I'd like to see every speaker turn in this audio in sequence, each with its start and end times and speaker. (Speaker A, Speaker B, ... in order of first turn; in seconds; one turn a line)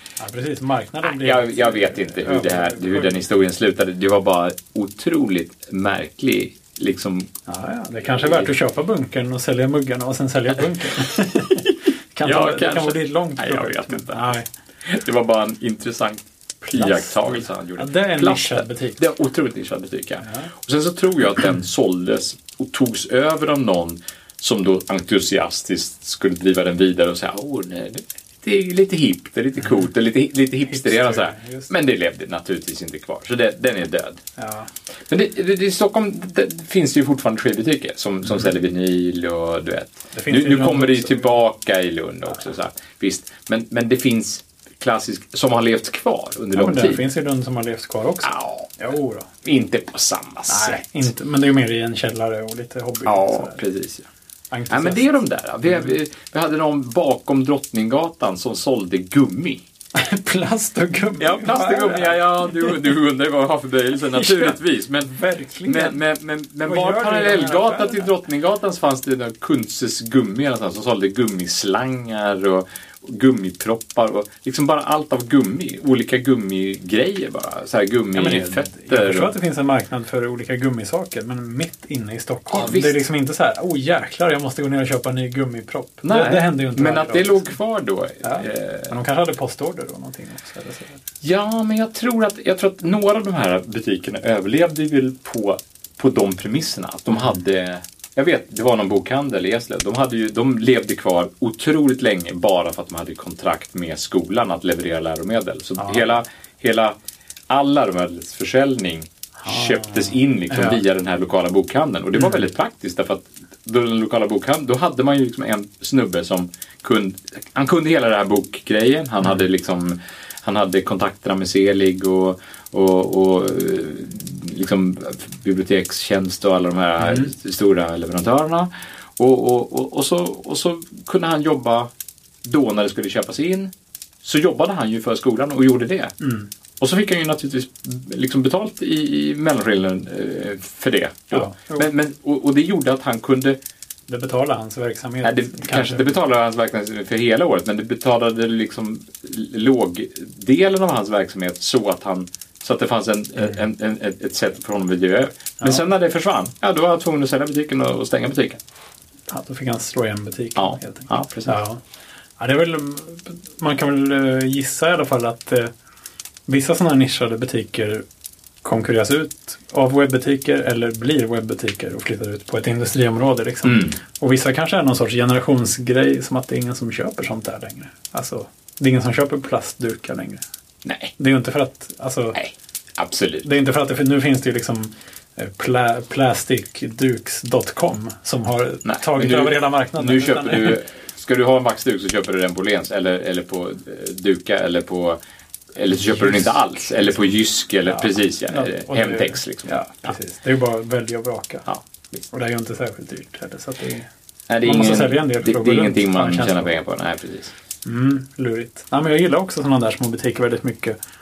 Speaker A: 0.2-3.2
Speaker B: 1.0-7.3
Speaker A: 7.5-14.5
Speaker B: 8.0-8.5
Speaker B: 12.2-34.2
Speaker A: 16.6-19.0
Speaker A: 20.2-20.5
Speaker A: 30.7-31.7
Speaker A: 34.4-34.7
Speaker B: 35.1-47.0
Speaker A: 40.1-41.3
Speaker A: 46.5-49.3
Speaker B: 48.2-48.7
Speaker B: 49.4-51.1
Speaker A: 50.5-53.6
Speaker B: 53.0-54.1
Speaker A: 54.5-55.1
Speaker B: 54.7-59.6
Speaker A: 60.0-62.9
Speaker B: 61.2-79.3
Speaker A: 64.1-66.0
Speaker A: 66.7-68.1
Speaker A: 78.1-87.5
Speaker B: 82.5-83.0
Speaker B: 86.0-88.9
Speaker A: 88.2-91.0
Speaker B: 91.2-107.0
Speaker A: 105.8-106.1
Speaker B: 107.5-131.9
Speaker A: 109.4-110.8
Speaker A: 127.0-127.3
Speaker B: 132.4-133.7
Speaker B: 134.2-136.1
Speaker A: 136.2-136.5
Speaker B: 136.8-143.6
Speaker A: 141.3-141.9
Speaker A: 144.1-146.1
Speaker B: 145.2-158.6
Speaker A: 155.6-155.9
Speaker A: 159.3-161.8
Speaker B: 160.6-161.6
Speaker A: 162.4-165.7
Speaker A: 166.5-168.0
Speaker A: 168.6-180.4
Speaker B: 173.6-174.0
Speaker B: 180.8-181.1
Speaker A: 181.2-182.4
Speaker B: 182.3-183.5
Speaker A: 183.4-190.8
Speaker B: 188.8-195.2
Speaker B: 195.8-200.1
Speaker A: 195.9-197.2
Speaker A: 197.9-201.7
Speaker B: 201.7-202.3
Speaker A: 202.3-204.1
Speaker B: 204.5-207.5
Speaker A: 204.6-206.7
Speaker A: 207.8-211.0